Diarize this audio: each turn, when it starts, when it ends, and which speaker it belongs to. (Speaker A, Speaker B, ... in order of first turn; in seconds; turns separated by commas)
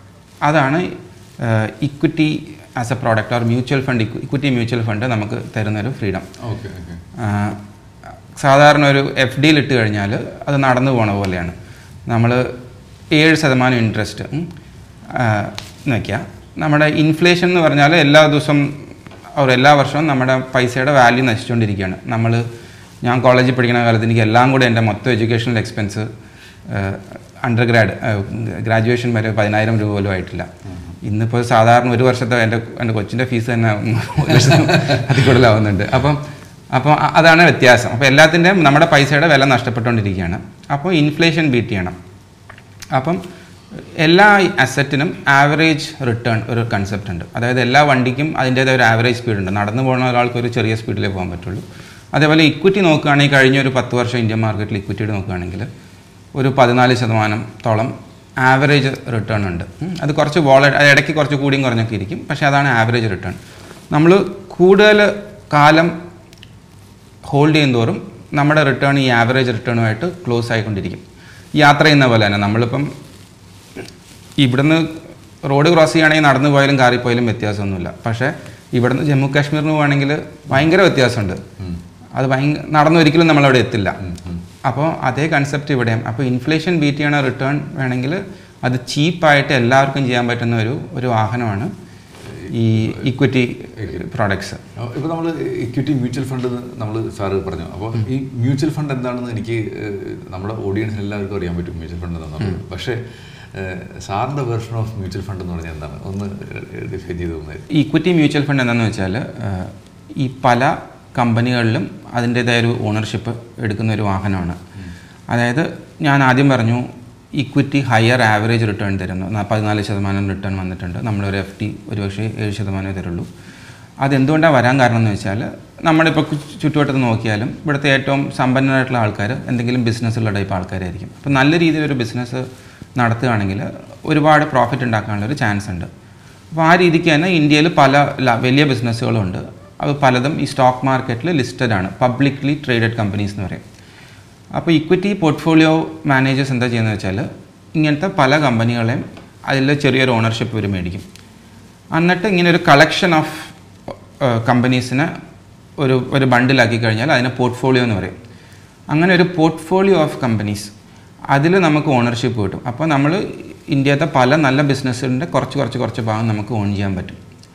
Speaker A: 0.4-6.3, Speaker B: 6.4-7.0, Speaker A: 7.2-7.6, Speaker A: 8.3-11.6, Speaker A: 12.1-12.6, Speaker A: 13.1-14.5, Speaker A: 15.1-22.4, Speaker A: 23.0-26.1, Speaker A: 26.7-30.5, Speaker B: 30.7-31.0, Speaker A: 31.0-42.0, Speaker B: 34.5-35.1, Speaker A: 42.9-43.2, Speaker A: 44.0-55.7, Speaker A: 56.3-63.4, Speaker A: 63.9-65.9, Speaker A: 67.2-71.0, Speaker A: 71.6-72.9, Speaker A: 74.4-81.4, Speaker A: 82.1-84.0, Speaker B: 84.0-84.4, Speaker A: 84.6-91.7, Speaker B: 92.2-93.1, Speaker A: 92.5-94.6, Speaker B: 93.8-94.0, Speaker B: 94.8-103.0, Speaker B: 103.5-107.7, Speaker A: 107.7-114.6, Speaker A: 115.3-123.3, Speaker A: 124.0-135.9, Speaker A: 136.5-143.6, Speaker A: 144.5-151.1, Speaker A: 151.9-155.1, Speaker A: 155.8-158.2, Speaker A: 158.9-160.7, Speaker A: 161.3-167.2